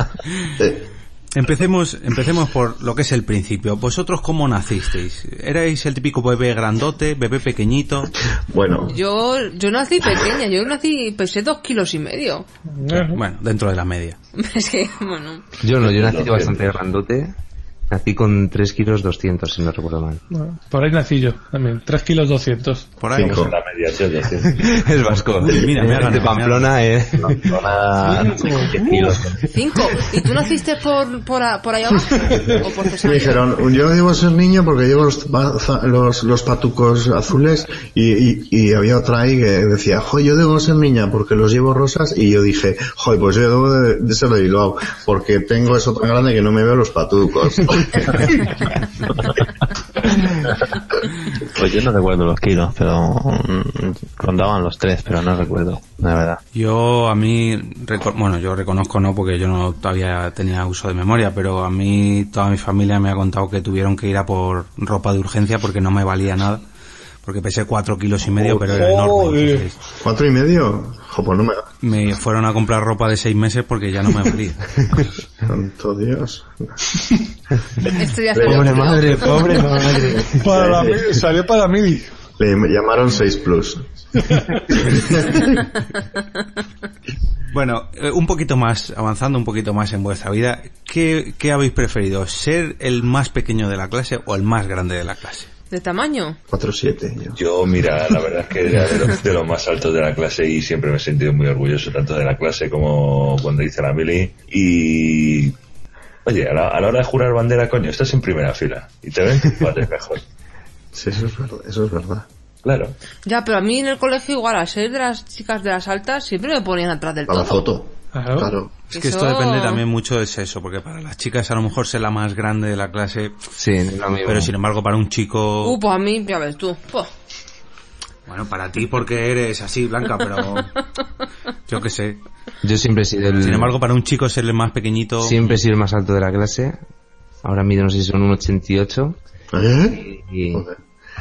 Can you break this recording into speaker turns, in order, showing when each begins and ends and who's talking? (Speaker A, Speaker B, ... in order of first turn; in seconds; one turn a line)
Speaker A: 0.6-0.9
Speaker B: 1.3-8.1
Speaker A: 8.5-9.0
Speaker C: 8.8-12.5
Speaker D: 12.7-13.2
Speaker B: 12.9-14.2
Speaker C: 14.3-15.4
Speaker E: 15.6-17.3
Speaker F: 15.7-16.7
Speaker E: 17.9-20.2
Speaker D: 20.3-22.9
Speaker B: 23.0-23.4
Speaker A: 23.1-23.5
Speaker F: 23.2-24.6
Speaker E: 24.5-27.6
Speaker B: 25.4-26.7
Speaker G: 27.3-29.4
Speaker D: 28.0-28.9
Speaker C: 29.5-33.4
Speaker A: 32.4-49.4
Speaker G: 51.5-56.4
Speaker B: 56.5-66.6
Speaker B: 67.2-69.7
Speaker D: 68.6-69.6
Speaker A: 70.0-71.7
Speaker B: 71.8-74.8
Speaker A: 75.4-76.6
Speaker C: 77.9-79.5
Speaker E: 78.4-80.4
Speaker A: 78.4-81.1
Speaker D: 79.4-82.1
Speaker A: 82.4-83.8
Speaker D: 84.3-84.5
Speaker A: 84.7-85.6
Speaker B: 87.5-95.5
Speaker C: 95.7-96.4
Speaker A: 96.5-97.4
Speaker F: 97.3-105.5
Speaker F: 106.2-110.2
Speaker A: 110.9-112.2
Speaker F: 112.6-112.9
Speaker C: 113.2-117.7
Speaker A: 117.3-118.7
Speaker D: 118.1-118.5
Speaker B: 118.9-123.3
Speaker C: 118.9-119.8
Speaker E: 123.5-124.5
Speaker B: 124.2-125.8
Speaker C: 125.6-127.1
Speaker B: 128.3-130.7
Speaker B: 131.7-132.2
Speaker E: 132.6-133.7
Speaker B: 133.4-135.4
Speaker E: 135.2-136.8
Speaker E: 137.4-139.2
Speaker A: 139.5-140.8
Speaker E: 139.9-140.6